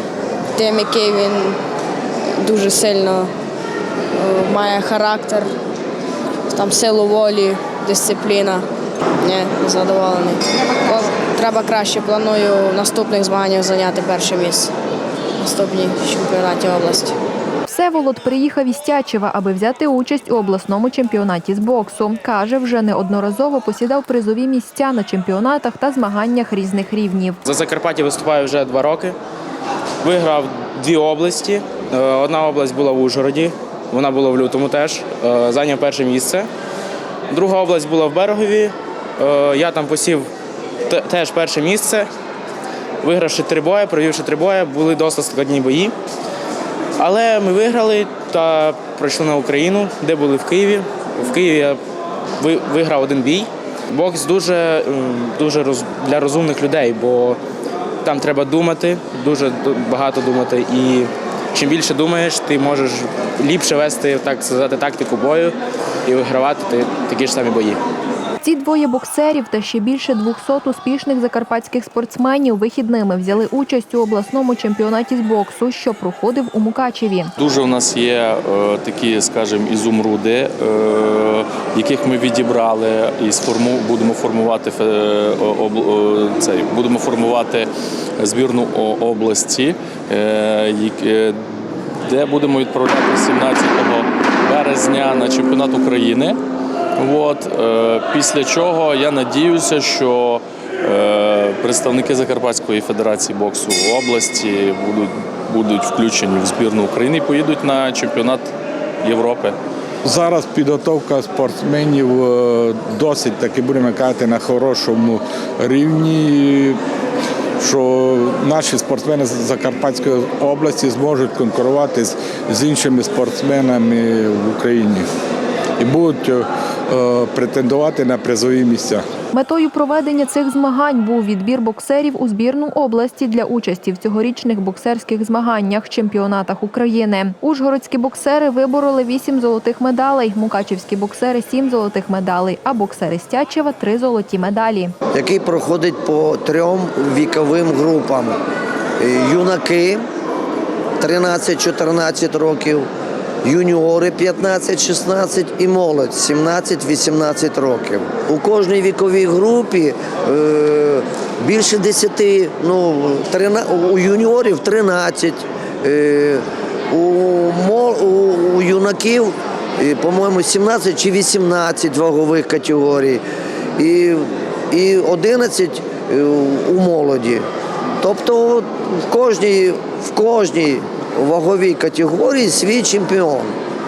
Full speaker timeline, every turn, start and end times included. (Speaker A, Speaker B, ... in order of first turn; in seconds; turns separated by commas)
Speaker A: 0.6-1.6, Speaker A: 2.4-3.3, Speaker A: 4.2-5.5, Speaker A: 6.5-8.7, Speaker A: 9.2-14.7, Speaker A: 15.4-17.1, Speaker B: 17.7-27.4, Speaker C: 27.4-29.2, Speaker C: 30.0-36.5, Speaker C: 37.3-40.3, Speaker C: 40.9-42.1, Speaker C: 43.0-46.0, Speaker C: 47.0-51.8, Speaker C: 52.4-57.4, Speaker C: 58.0-67.8, Speaker B: 68.4-77.3, Speaker D: 77.4-91.4, Speaker D: 92.0-96.4, Speaker D: 97.0-109.5, Speaker E: 110.0-116.8, Speaker E: 117.6-125.0, Speaker E: 125.8-129.0, Speaker B: 129.3-144.9, Speaker F: 145.1-148.3, Speaker F: 149.0-150.0, Speaker F: 151.0-152.9, Speaker F: 153.4-173.2, Speaker F: 173.8-177.4, Speaker F: 178.0-183.5